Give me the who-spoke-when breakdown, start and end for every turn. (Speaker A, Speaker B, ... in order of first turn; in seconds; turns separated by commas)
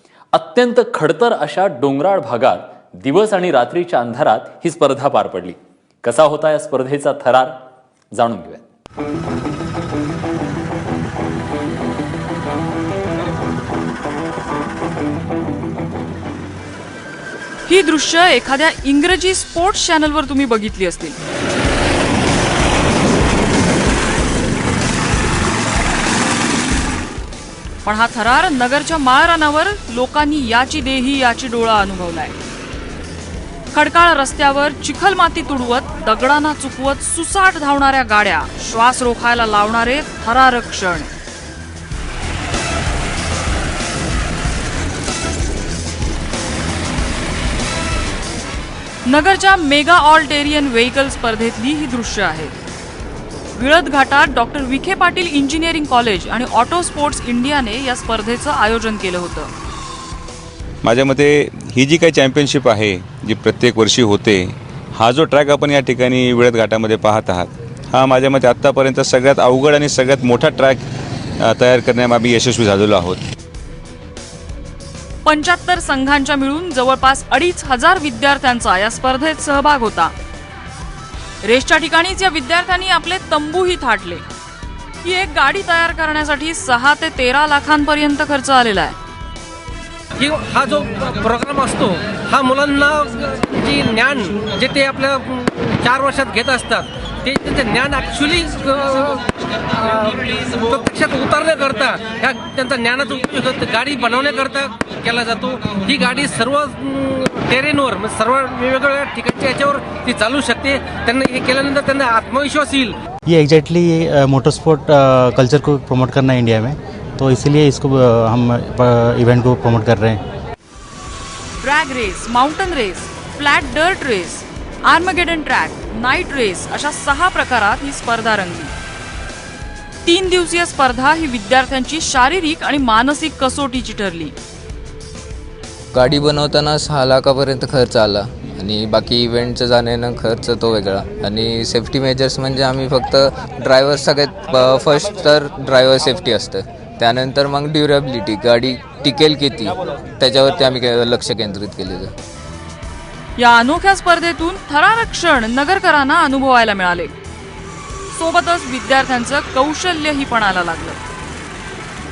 Speaker A: 0.3-7.6, Speaker A: 8.1-8.6, Speaker B: 17.6-21.2, Speaker B: 27.8-32.3, Speaker B: 33.7-41.1, Speaker B: 49.0-52.5, Speaker B: 53.5-59.5, Speaker C: 60.8-70.8, Speaker C: 71.4-73.2, Speaker B: 75.2-80.1, Speaker B: 81.4-84.2, Speaker B: 85.0-89.0, Speaker D: 90.2-99.2, Speaker D: 99.9-112.9, Speaker E: 113.3-120.2, Speaker B: 121.6-128.7, Speaker B: 130.0-134.3, Speaker F: 135.9-152.1, Speaker B: 153.4-157.1, Speaker B: 158.1-161.0